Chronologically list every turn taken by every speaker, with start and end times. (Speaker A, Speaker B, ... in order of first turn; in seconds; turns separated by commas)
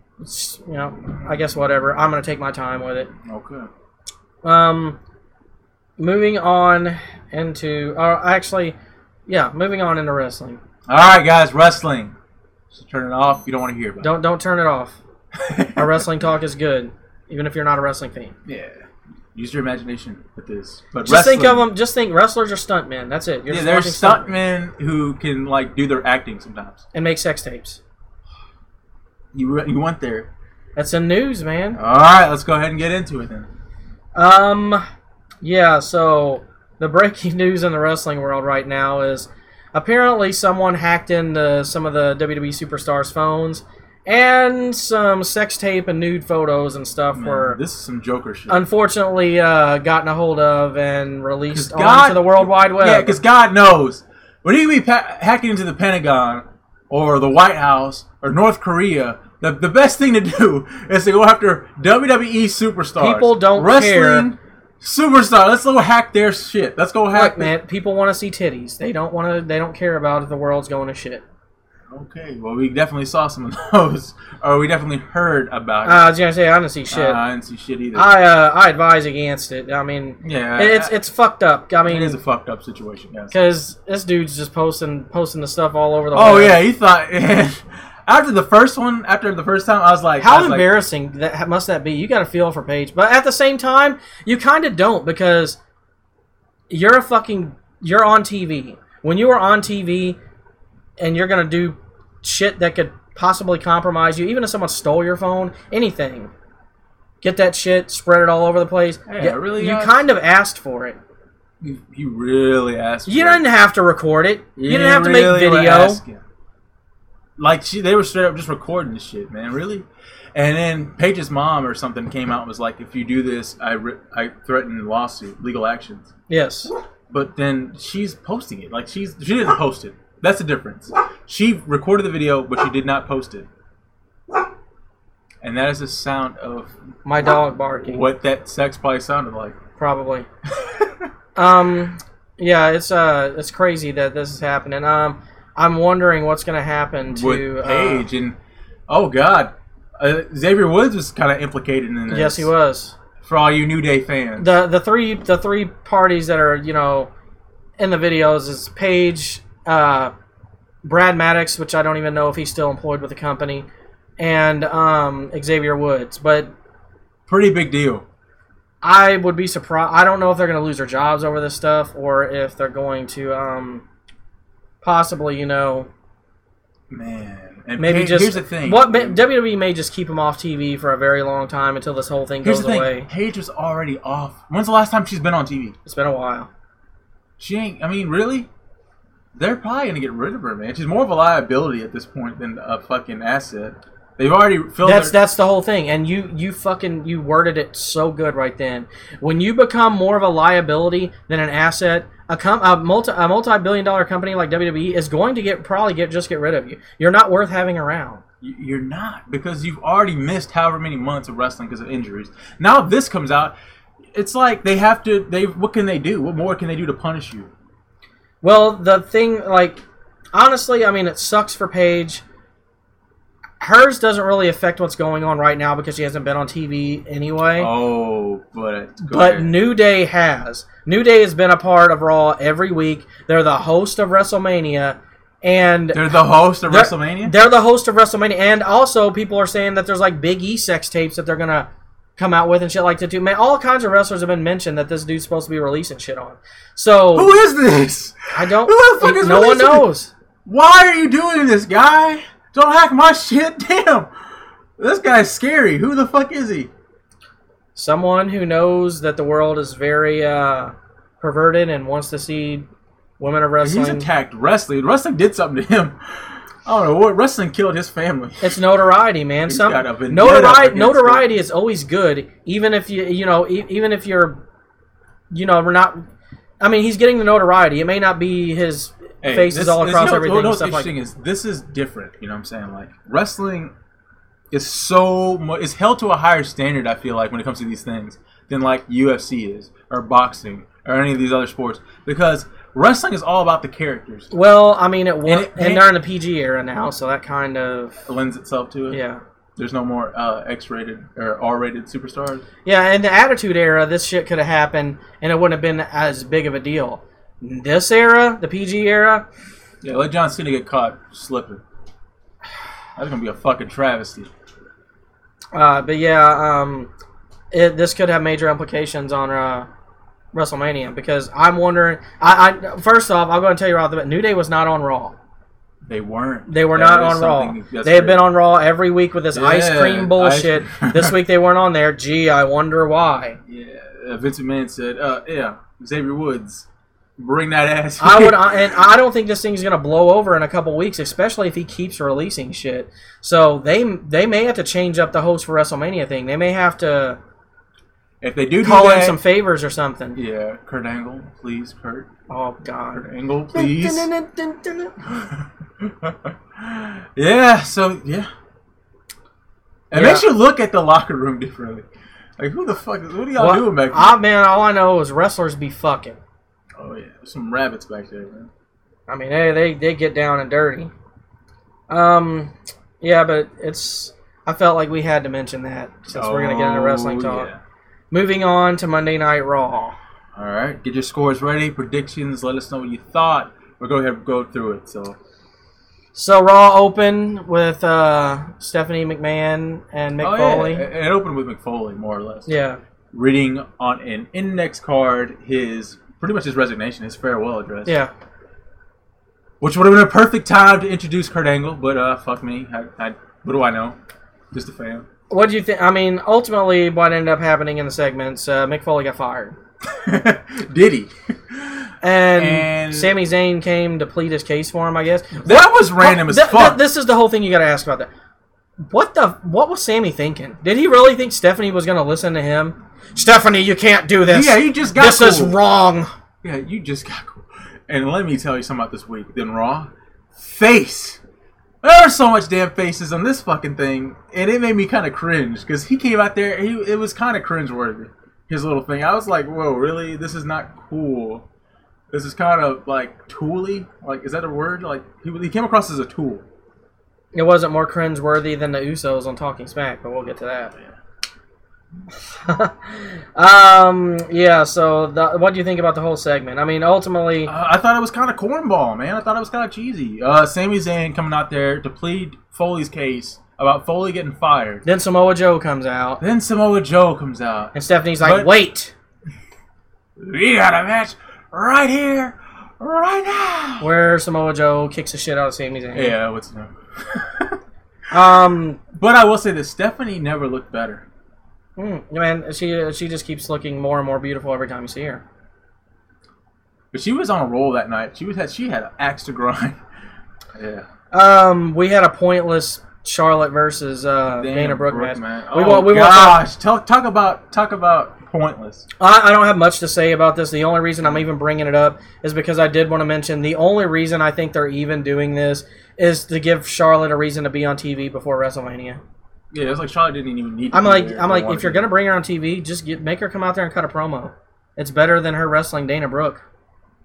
Speaker A: 0.2-3.1, Speaker B: 3.2-3.7, Speaker A: 4.4-5.0, Speaker A: 6.0-8.7, Speaker A: 9.3-10.6, Speaker B: 10.9-12.1, Speaker B: 12.7-14.1, Speaker A: 14.0-15.0, Speaker B: 15.3-16.1, Speaker A: 15.8-18.3, Speaker B: 18.4-21.6, Speaker A: 21.0-24.3, Speaker B: 23.5-26.8, Speaker A: 26.9-27.8, Speaker B: 29.3-30.3, Speaker A: 30.8-31.8, Speaker B: 31.8-33.5, Speaker A: 34.1-34.8, Speaker A: 35.4-47.6, Speaker B: 47.1-48.6, Speaker A: 48.5-53.2, Speaker B: 51.5-67.5, Speaker A: 63.0-64.3, Speaker A: 67.1-71.2, Speaker B: 71.9-76.1, Speaker A: 75.8-77.2, Speaker B: 76.9-78.1, Speaker A: 77.9-82.2, Speaker B: 80.2-80.9, Speaker B: 81.8-83.3, Speaker A: 83.3-86.6, Speaker B: 86.1-90.7, Speaker A: 90.2-95.6, Speaker A: 96.7-100.2, Speaker A: 101.0-106.3, Speaker A: 107.2-111.0, Speaker B: 109.1-110.0, Speaker B: 111.6-113.4, Speaker A: 113.0-116.0, Speaker B: 114.6-116.2, Speaker B: 117.4-126.1, Speaker A: 126.3-126.7, Speaker B: 127.1-133.5, Speaker B: 135.4-136.7, Speaker A: 137.0-138.0, Speaker B: 137.8-139.6, Speaker A: 139.8-140.3, Speaker B: 140.5-141.1, Speaker A: 141.3-148.1, Speaker B: 147.1-148.3, Speaker B: 148.9-152.5, Speaker A: 152.1-152.9, Speaker B: 153.2-154.5, Speaker A: 154.4-157.1, Speaker A: 157.8-160.1, Speaker A: 160.8-163.7, Speaker A: 164.2-166.5, Speaker B: 167.3-168.0, Speaker A: 168.8-173.8, Speaker A: 174.8-175.9, Speaker B: 176.9-179.2, Speaker A: 177.8-183.1, Speaker B: 182.4-185.8, Speaker A: 185.8-186.5, Speaker B: 187.4-188.5, Speaker B: 189.3-195.2, Speaker A: 194.8-208.2, Speaker B: 208.4-213.5, Speaker B: 214.1-217.5, Speaker A: 218.4-219.8, Speaker A: 220.3-222.2, Speaker A: 223.6-227.7, Speaker B: 227.6-229.5, Speaker A: 229.0-236.1, Speaker B: 235.9-237.3, Speaker A: 236.6-247.3, Speaker B: 247.1-249.9, Speaker A: 248.3-250.1, Speaker B: 250.4-254.1, Speaker B: 254.8-256.7, Speaker A: 257.7-262.6, Speaker A: 263.2-264.1, Speaker B: 263.6-268.6, Speaker A: 268.4-274.4, Speaker B: 269.5-271.2, Speaker A: 275.3-276.0, Speaker A: 276.6-280.9, Speaker B: 279.2-283.7, Speaker B: 284.5-294.3, Speaker A: 294.3-298.0, Speaker B: 295.2-295.9, Speaker B: 298.1-299.0, Speaker A: 298.9-299.2, Speaker B: 299.6-302.4, Speaker A: 302.6-309.2, Speaker B: 309.8-311.6, Speaker B: 312.9-314.3, Speaker A: 315.5-316.9, Speaker A: 317.5-319.7, Speaker A: 320.3-325.1, Speaker B: 325.9-328.3, Speaker A: 326.5-333.4, Speaker B: 329.3-331.1, Speaker B: 333.5-336.7, Speaker B: 337.2-338.8, Speaker A: 338.0-347.2, Speaker B: 348.2-349.2, Speaker A: 348.6-350.2, Speaker B: 350.1-352.1, Speaker A: 352.3-355.0, Speaker B: 352.9-354.1, Speaker B: 355.1-358.3, Speaker B: 359.9-361.9, Speaker A: 359.9-360.3, Speaker B: 362.4-364.2, Speaker A: 363.4-366.2, Speaker B: 366.8-368.5, Speaker A: 369.1-370.9, Speaker A: 371.9-377.5, Speaker B: 376.1-377.6, Speaker A: 378.1-379.9, Speaker B: 380.3-385.2, Speaker A: 386.1-390.9, Speaker B: 390.2-392.5, Speaker A: 392.5-392.8, Speaker B: 393.1-397.9, Speaker A: 397.9-398.1, Speaker B: 399.6-403.9, Speaker B: 404.5-405.1, Speaker A: 405.3-409.6, Speaker B: 409.9-413.2, Speaker A: 412.0-418.1, Speaker B: 415.4-416.8, Speaker A: 418.9-426.1, Speaker B: 424.3-425.6, Speaker B: 426.4-431.2, Speaker B: 431.8-441.4, Speaker B: 442.1-446.4, Speaker A: 447.3-450.7, Speaker A: 452.3-457.5, Speaker B: 457.4-464.8, Speaker A: 464.8-466.2, Speaker B: 466.2-468.5, Speaker A: 467.7-468.9, Speaker B: 470.2-473.9, Speaker A: 473.8-476.1, Speaker B: 475.9-477.6, Speaker A: 478.1-478.8, Speaker B: 478.9-481.0, Speaker A: 481.8-485.2, Speaker B: 486.9-489.8, Speaker B: 490.5-490.9, Speaker A: 491.1-496.4, Speaker B: 494.3-498.9, Speaker A: 499.0-509.0, Speaker B: 509.5-511.9, Speaker A: 510.7-516.4